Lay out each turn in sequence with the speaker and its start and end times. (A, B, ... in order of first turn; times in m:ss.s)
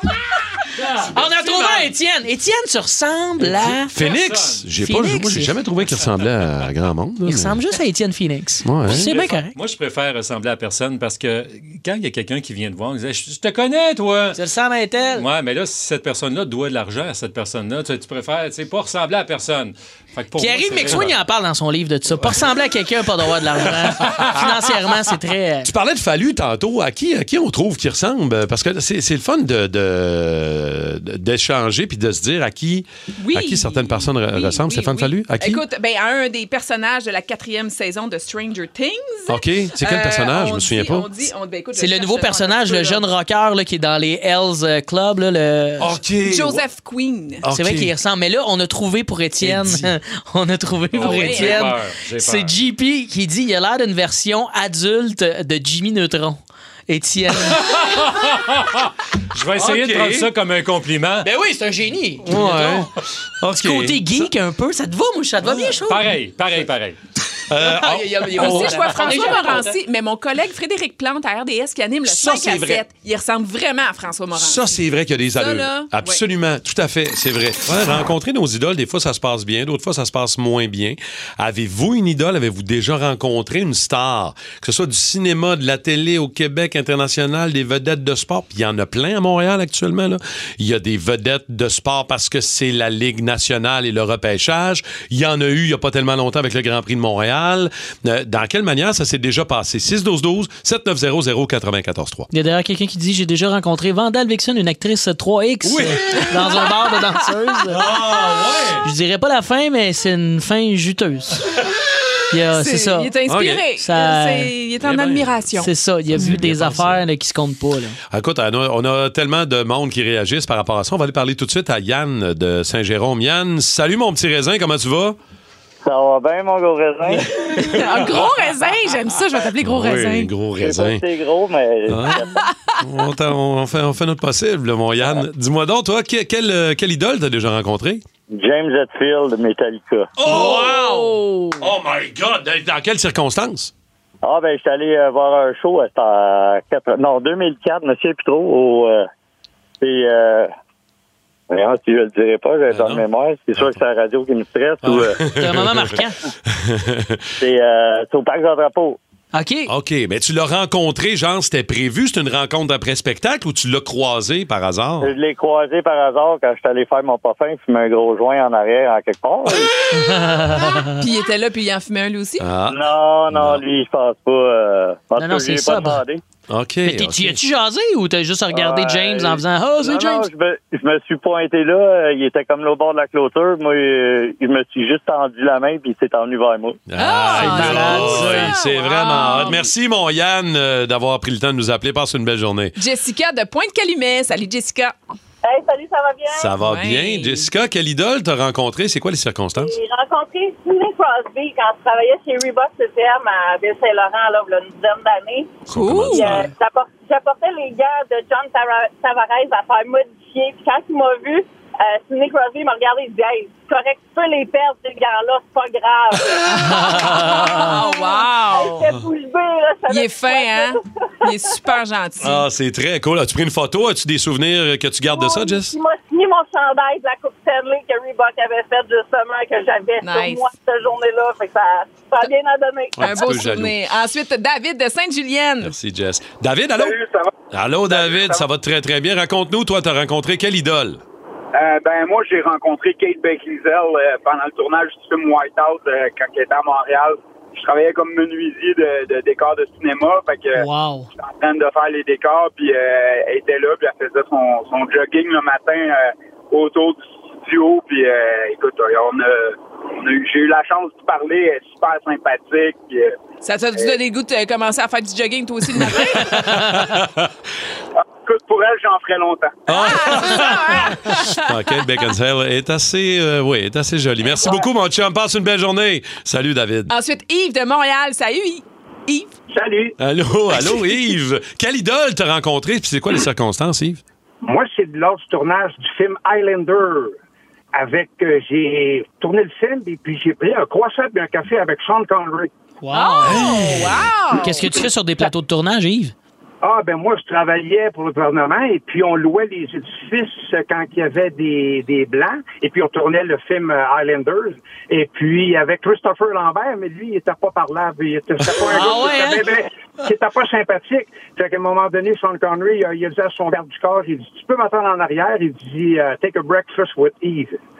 0:00.8-0:01.1 A
0:01.0-0:01.9 B
0:01.1-0:03.9 C
0:03.6-0:04.6 A
0:03.6-0:07.6 B
0:04.8-0:05.5 C
0:07.3-0:09.6 C
0:08.6-0:09.1 B
0:08.9-0:14.4 A
0:14.3-0:15.3 C
0:15.1-0:21.2 A
0:20.4-0:25.7 C
0:24.1-0:24.3 A
0:25.6-0:35.6 B
0:33.2-0:43.0 D
0:39.3-0:41.1 B
0:41.8-0:45.9 C
0:45.8-0:46.6 B
0:46.3-0:47.4 D
0:47.4-0:47.9 B
0:47.5-0:57.8 C
0:49.4-0:49.9 B
0:50.9-0:52.6 A
0:51.0-0:51.6 D
0:57.5-1:01.3 A
0:59.6-1:00.3 B
1:01.2-1:02.8 C
1:02.2-1:04.3 B
1:03.6-1:06.1 C
1:05.7-1:07.0 A
1:07.5-1:08.9 B
1:07.6-1:09.8 C
1:08.3-1:14.7 D
1:12.0-1:12.8 B
1:14.4-1:42.3 B
1:15.3-1:16.2 D
1:42.3-1:47.8 C
1:45.6-1:46.3 B
1:47.7-1:48.8 B
1:48.8-1:51.4 C
1:52.3-1:53.1 C
1:52.5-1:55.7 D
1:53.3-1:53.6 B
1:53.8-1:54.5 C
1:54.8-1:55.4 B
1:55.6-1:58.0 C
1:56.2-1:57.0 B
1:58.1-2:05.2 B
2:05.8-2:07.3 E
2:07.6-2:10.3 D
2:09.6-2:11.0 B
2:10.6-2:12.3 E
2:11.9-2:18.0 B
2:18.3-2:20.1 E
2:20.2-2:23.7 B
2:20.2-2:21.7 D
2:24.2-2:29.1 E
2:29.8-2:30.5 E
2:31.5-2:35.2 E
2:32.7-2:33.0 B
2:34.8-2:35.9 B
2:35.3-2:36.2 C
2:36.5-2:37.2 B
2:37.4-2:39.0 E
2:39.3-2:39.7 C
2:39.7-2:45.1 B
2:45.0-2:49.7 E
2:49.9-2:51.0 C
2:51.0-2:52.5 D
2:52.4-2:53.6 B
2:52.7-2:56.2 E
2:55.2-2:56.0 C
2:56.5-2:57.4 B
2:56.8-3:00.3 C
2:58.5-3:06.8 E
3:06.9-3:12.8 B
3:07.0-3:09.7 D
3:07.3-3:08.5 C
3:12.8-3:15.0 D
3:15.4-3:16.5 F
3:16.3-3:19.7 B
3:16.6-3:17.5 D
3:19.6-3:25.6 F
3:25.7-3:26.5 B
3:25.7-3:26.5 D
3:26.1-3:41.7 F
3:36.5-3:37.8 C
3:36.5-3:38.8 D
3:39.9-3:42.4 D
3:42.2-3:45.8 B
3:45.1-3:53.3 F
3:50.0-3:50.5 D
3:53.0-3:53.8 B
3:53.0-3:55.7 D
3:55.6-3:57.0 B
3:56.8-3:57.3 G
3:57.5-4:01.0 B
3:57.9-3:58.5 G
4:01.5-4:10.6 G
4:10.6-4:11.1 C
4:11.2-4:23.2 G
4:23.4-4:26.5 D
4:26.1-4:27.3 B
4:26.4-4:26.9 C
4:28.0-4:29.7 G
4:29.7-4:36.9 B
4:29.7-4:31.5 D
4:36.9-4:39.3 D
4:39.5-4:39.9 H
4:40.0-4:44.0 B
4:44.4-4:47.2 H
4:47.7-4:52.5 H
4:52.8-4:53.4 C
4:52.9-4:55.3 D
4:53.2-4:54.1 B
4:54.4-4:56.1 C
4:56.6-5:17.6 H
5:08.6-5:09.5 C